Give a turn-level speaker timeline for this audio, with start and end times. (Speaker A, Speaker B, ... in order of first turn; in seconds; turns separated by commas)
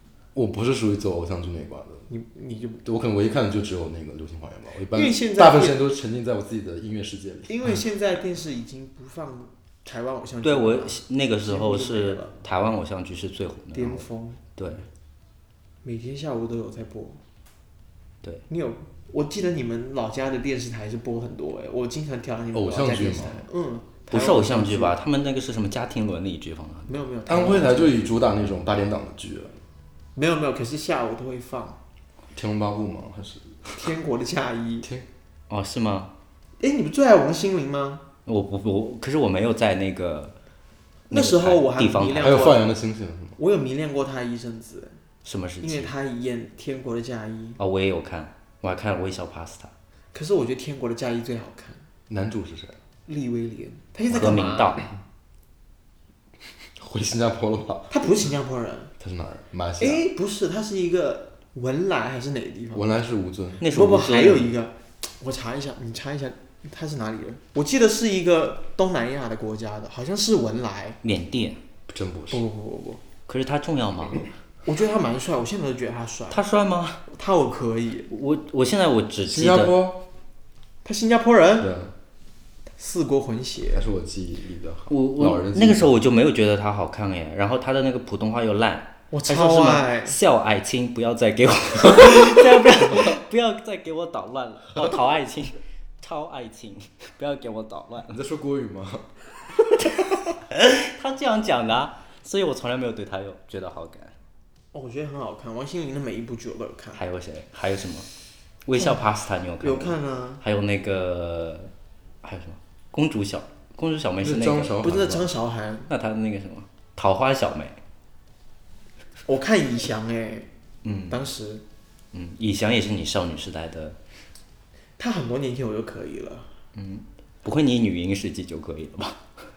Speaker A: 0.3-2.1, Speaker B: 2.1-2.8, Speaker A: 2.8-7.5, Speaker B: 4.9-5.8, Speaker B: 7.5-12.3, Speaker C: 10.4-14.8, Speaker B: 13.7-14.4, Speaker B: 15.8-17.2, Speaker B: 18.5-24.9, Speaker A: 22.5-23.4, Speaker C: 24.1-26.9, Speaker B: 26.9-27.9, Speaker A: 27.3-29.6, Speaker B: 30.1-31.8, Speaker A: 32.3-33.9, Speaker B: 33.7-34.9, Speaker C: 35.5-36.1, Speaker B: 36.6-38.0, Speaker C: 38.2-40.4, Speaker C: 41.1-42.5, Speaker B: 41.1-42.6, Speaker A: 42.2-43.4, Speaker B: 43.4-45.0, Speaker C: 45.2-45.9, Speaker B: 45.6-47.6, Speaker C: 47.6-49.7, Speaker B: 50.1-51.8, Speaker A: 52.1-52.8, Speaker B: 53.0-54.8, Speaker C: 54.1-54.9, Speaker A: 56.8-57.9, Speaker B: 57.9-58.9, Speaker A: 59.0-60.0, Speaker B: 59.8-62.9, Speaker A: 62.7-63.6, Speaker C: 63.6-64.5, Speaker B: 63.6-71.0, Speaker C: 71.0-71.6, Speaker A: 71.9-72.4, Speaker B: 72.3-73.0, Speaker C: 73.3-74.3, Speaker B: 74.6-76.4, Speaker C: 76.3-77.0, Speaker B: 77.1-78.1, Speaker C: 78.1-79.7, Speaker A: 79.3-80.0, Speaker B: 80.8-81.7, Speaker A: 81.6-81.9, Speaker B: 82.8-83.8, Speaker A: 83.7-85.9, Speaker C: 84.9-98.2, Speaker B: 89.1-90.2, Speaker A: 98.1-99.1, Speaker C: 100.4-104.1, Speaker B: 104.7-107.0, Speaker C: 107.0-108.1, Speaker C: 108.7-111.7, Speaker B: 109.6-110.4, Speaker C: 112.2-114.8, Speaker A: 114.2-115.3, Speaker B: 114.8-115.9, Speaker C: 115.9-117.8, Speaker B: 119.2-120.5, Speaker C: 120.8-121.2, Speaker B: 121.1-121.6, Speaker C: 122.1-124.0, Speaker B: 125.0-126.5, Speaker C: 126.7-129.2